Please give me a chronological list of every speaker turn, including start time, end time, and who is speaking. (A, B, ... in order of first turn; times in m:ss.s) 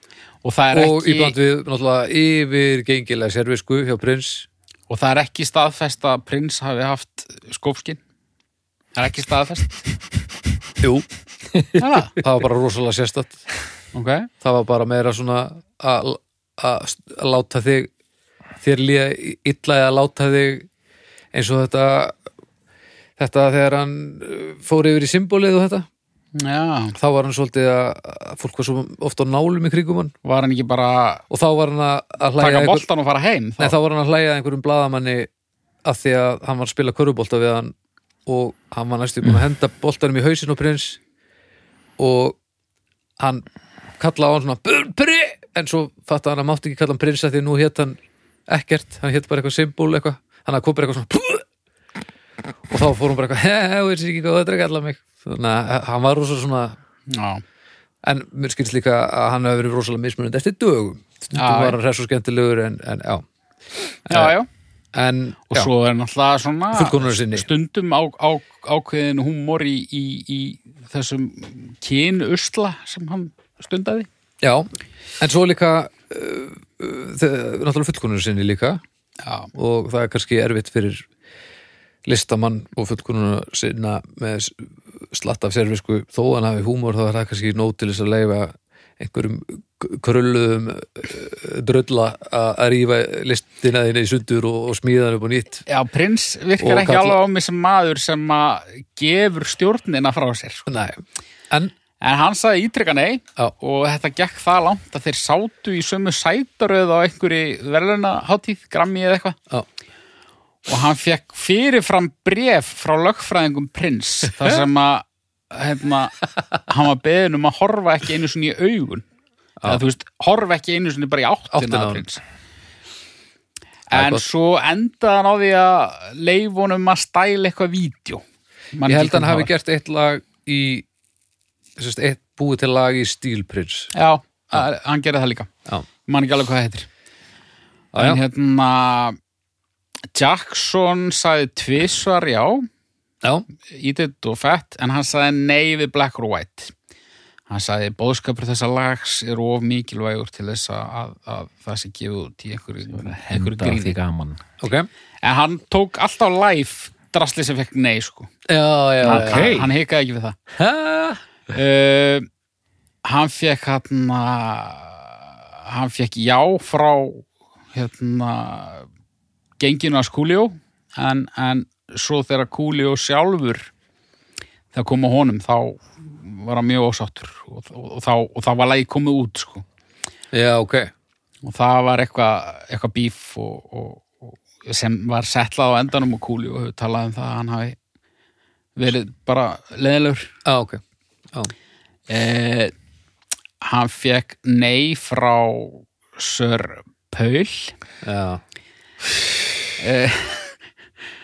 0:00.4-0:01.4 A
0:00.7-0:04.5 B
0:04.9-0:08.0 A
0:09.0-0:09.9 A
0:10.8-0:11.1 B
0:11.8-0:12.2 A
0:12.2-0:13.4 B
0:13.9-0:14.3 A
0:14.4-0:17.9 B
0:18.6-0:20.7 B
0:21.3-0:22.2 B
0:23.2-0:25.9 B
0:26.4-0:27.0 A
0:27.0-0:30.1 B
0:30.2-0:31.2 A
0:31.3-0:32.9 B
0:32.4-0:33.7 A
0:33.6-0:35.3 B
0:35.9-0:37.7 B
0:38.3-0:41.0 B
0:42.0-0:42.4 B
0:43.2-0:43.4 B
0:44.0-0:51.4 B
0:52.7-0:56.8 B
0:57.1-0:57.4 A
0:58.0-1:03.2 B
1:01.3-1:01.8 A
1:04.1-1:04.4 B
1:04.1-1:04.5 A
1:04.9-1:05.7 B
1:05.5-1:14.1 A
1:06.7-1:07.5 B
1:14.4-1:14.7 B
1:15.2-1:18.8 B
1:19.2-1:19.5 A
1:19.5-1:21.1 B
1:22.1-1:35.6 B
1:35.7-1:40.7 A
1:36.6-1:37.2 B
1:40.7-1:41.7 B
1:42.0-1:49.4 A
1:50.7-1:59.0 A
1:54.4-1:54.6 B
1:59.7-2:02.2 A
2:01.5-2:02.0 B
2:03.9-2:08.2 A
2:03.9-2:04.3 B
2:08.7-2:09.5 A
2:08.9-2:10.9 B
2:11.8-2:13.9 B
2:13.9-2:15.5 A
2:16.1-2:16.9 A
2:17.9-2:18.2 B
2:18.0-2:19.2 A
2:20.2-2:22.7 A
2:23.6-2:26.7 A
2:27.5-2:34.0 A
2:32.9-2:34.4 C
2:34.6-2:34.9 B
2:35.2-2:38.3 A
2:38.5-2:39.5 B
2:39.0-2:39.7 C
2:39.0-2:40.4 A
2:40.5-2:41.2 B
2:41.5-2:42.3 A
2:43.0-2:45.0 A
2:45.7-2:48.9 A
2:49.6-2:53.7 A
2:54.7-2:59.6 A
3:00.3-3:00.9 B
3:01.4-3:07.8 A
3:08.8-3:10.3 A
3:10.4-3:10.8 B
3:12.1-3:12.7 A
3:13.6-3:17.8 A
3:18.0-3:18.4 B
3:19.8-3:20.6 A